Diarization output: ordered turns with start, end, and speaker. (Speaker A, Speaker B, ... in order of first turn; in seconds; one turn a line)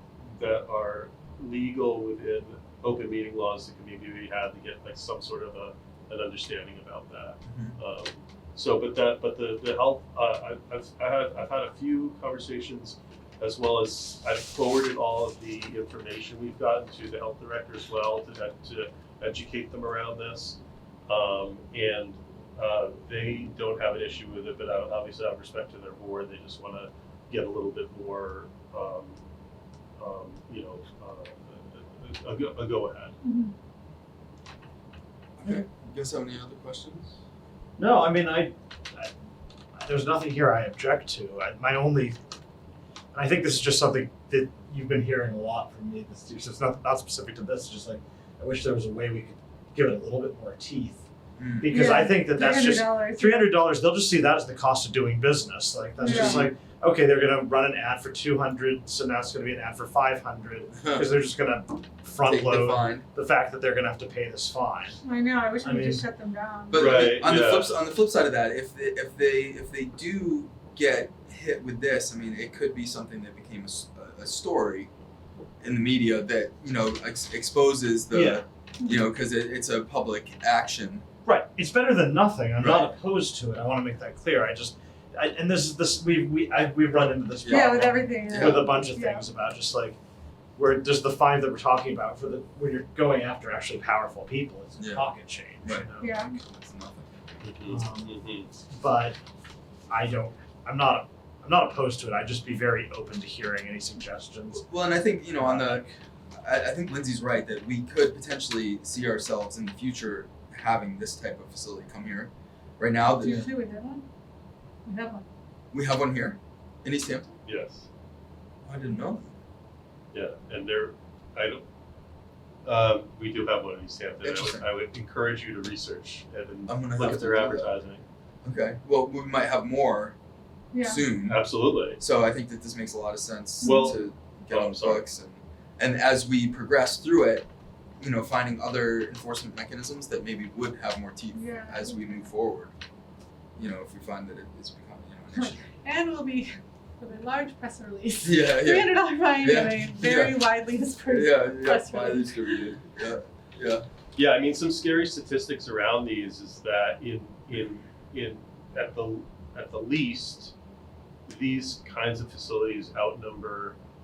Speaker A: 0.2-29.2
Speaker B: 7.5-7.8
Speaker A: 30.0-33.2
Speaker C: 33.2-33.5
Speaker B: 35.4-37.2
Speaker D: 37.8-39.1
Speaker D: 39.8-42.2
Speaker D: 43.1-51.1
Speaker B: 51.4-51.8
Speaker D: 51.6-65.0
Speaker C: 51.6-53.6
Speaker C: 56.0-56.5
Speaker B: 56.1-56.5
Speaker B: 60.7-61.1
Speaker B: 62.2-63.1
Speaker C: 65.0-67.2
Speaker D: 65.6-66.0
Speaker B: 66.7-74.9
Speaker A: 66.7-67.8
Speaker B: 75.6-81.0
Speaker D: 78.1-78.4
Speaker D: 81.2-90.0
Speaker B: 82.6-82.9
Speaker B: 87.4-88.9
Speaker C: 87.5-89.2
Speaker D: 90.6-96.3
Speaker B: 94.8-95.1
Speaker B: 95.6-97.4
Speaker C: 96.0-96.4
Speaker A: 97.4-98.5
Speaker D: 97.7-98.2
Speaker D: 98.7-99.2
Speaker D: 99.9-104.8
Speaker B: 104.5-113.5
Speaker D: 105.3-106.0
Speaker C: 113.1-114.1
Speaker C: 114.9-115.3
Speaker B: 115.7-117.3
Speaker A: 117.5-117.9
Speaker B: 118.7-119.3
Speaker A: 120.1-121.6
Speaker A: 122.7-128.1
Speaker B: 124.2-124.7
Speaker B: 126.7-127.7
Speaker B: 128.4-130.2
Speaker C: 130.7-131.0
Speaker B: 130.8-137.5
Speaker A: 131.3-132.0
Speaker C: 133.6-134.0
Speaker A: 133.6-135.1
Speaker B: 138.0-142.7
Speaker C: 141.3-142.2
Speaker B: 143.6-145.7
Speaker C: 145.3-152.8
Speaker B: 148.2-150.5
Speaker B: 151.0-153.8
Speaker A: 154.2-160.5
Speaker A: 161.3-163.8